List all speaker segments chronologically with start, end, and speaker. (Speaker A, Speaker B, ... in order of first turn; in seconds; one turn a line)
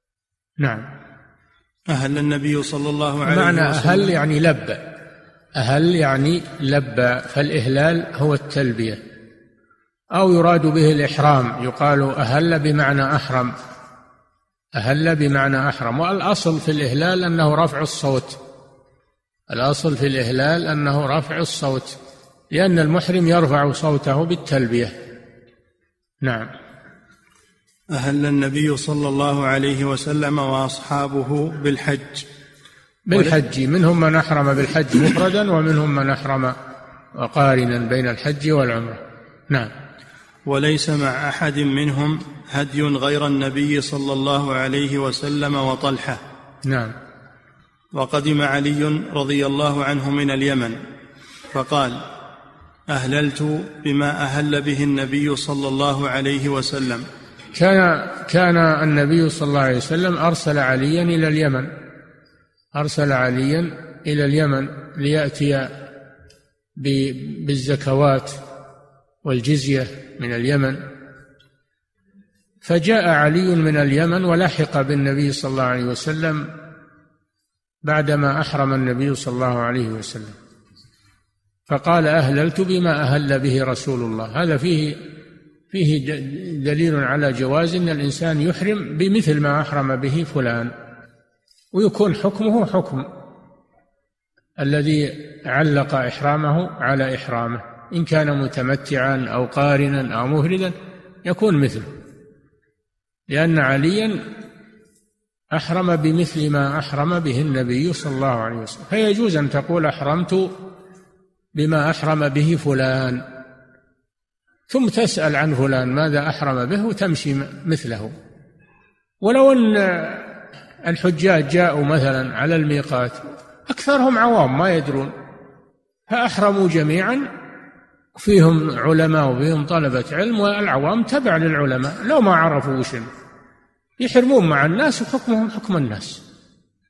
Speaker A: 0.6-0.8
Speaker B: 1.9-4.2
Speaker A: 3.2-4.8
Speaker A: 5.6-9.0
Speaker A: 10.1-13.5
Speaker A: 14.8-18.4
Speaker A: 19.5-22.0
Speaker A: 22.5-24.9
Speaker A: 26.2-26.5
Speaker B: 27.9-32.2
Speaker A: 33.1-36.5
Speaker A: 37.1-39.7
Speaker B: 40.5-46.2
Speaker A: 46.6-46.9
Speaker B: 47.9-50.8
Speaker B: 51.5-52.0
Speaker B: 52.9-57.0
Speaker A: 57.5-61.7
Speaker A: 62.7-65.7
Speaker A: 66.8-68.4
Speaker A: 69.2-70.8
Speaker A: 72.6-76.5
Speaker A: 77.8-80.3
Speaker A: 81.7-85.0
Speaker A: 85.7-90.7
Speaker A: 91.7-93.1
Speaker A: 94.6-101.9
Speaker A: 103.3-104.2
Speaker A: 105.5-110.5
Speaker A: 111.5-113.2
Speaker A: 114.7-118.1
Speaker A: 119.2-120.3
Speaker A: 120.8-125.1
Speaker A: 126.1-127.2
Speaker A: 128.1-133.1
Speaker A: 134.0-136.2